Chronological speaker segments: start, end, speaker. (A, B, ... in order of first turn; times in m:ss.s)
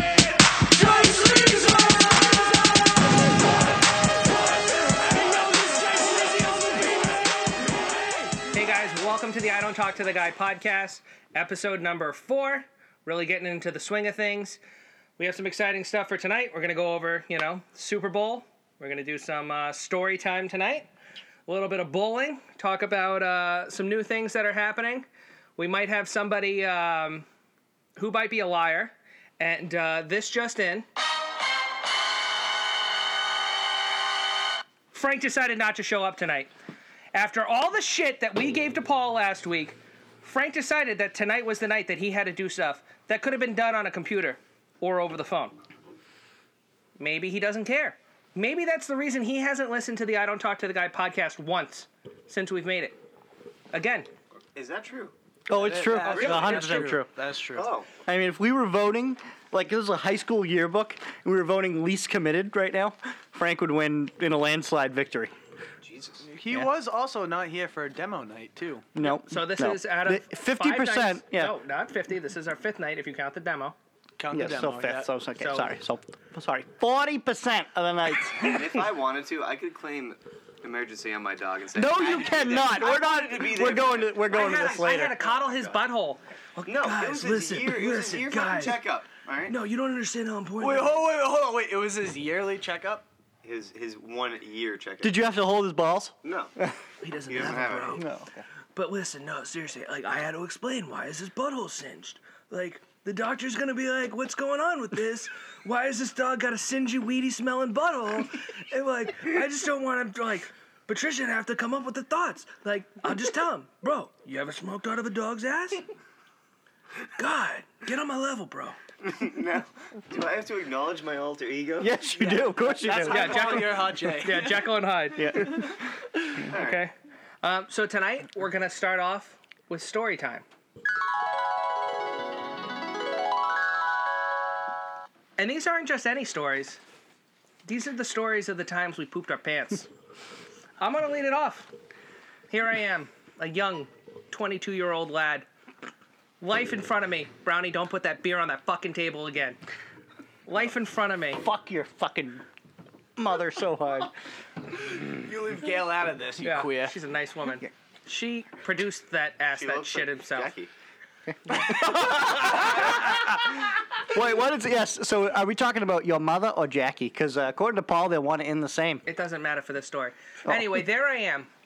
0:00.7-0:01.9 A
0:08.5-0:14.6 A
0:15.2-0:20.9 A
0:21.5-0:27.2 A
0:28.0-0:30.8 A
0:34.9-0:36.5 A
0:37.1-0:45.6 A
0:47.0-0:53.0 A
0:53.7-0:54.1 A
0:54.5-0:55.1 B
0:55.5-0:57.1 C
0:55.5-0:57.7 D
0:56.0-0:56.9 B
0:57.5-0:57.9 B
0:58.0-1:05.3 C
1:05.8-1:06.2 B
1:06.2-1:08.9 D
1:08.9-1:11.5 C
1:09.0-1:13.8 A
1:14.2-1:15.1 D
1:14.3-1:18.8 C
1:15.4-1:15.7 A
1:18.4-1:25.8 B
1:21.7-1:25.2 C
1:24.3-1:28.8 A
1:26.6-1:29.6 B
1:29.5-1:31.0 A
1:30.6-1:33.0 D
1:33.4-1:35.3 B
1:35.0-1:36.8 C
1:36.2-1:36.5 B
1:37.0-1:38.0 A
1:37.3-1:38.0 B
1:37.3-1:38.4 C
1:38.7-1:55.8 A
1:57.2-1:58.8 A
1:59.0-2:01.9 B
2:01.8-2:03.7 C
2:02.3-2:04.7 D
2:03.0-2:05.6 A
2:05.1-2:06.4 C
2:06.4-2:10.4 A
2:06.5-2:06.8 B
2:15.4-2:16.8 A
2:17.6-2:19.9 A
2:20.8-2:21.7 A
2:22.5-2:25.5 A
2:26.4-2:29.6 A
2:30.4-2:31.4 A
2:31.4-2:32.4 C
2:33.2-2:34.1 C
2:35.0-2:37.0 D
2:36.4-2:40.5 A
2:39.5-2:40.7 B
2:41.5-2:49.0 C
2:49.0-2:51.5 A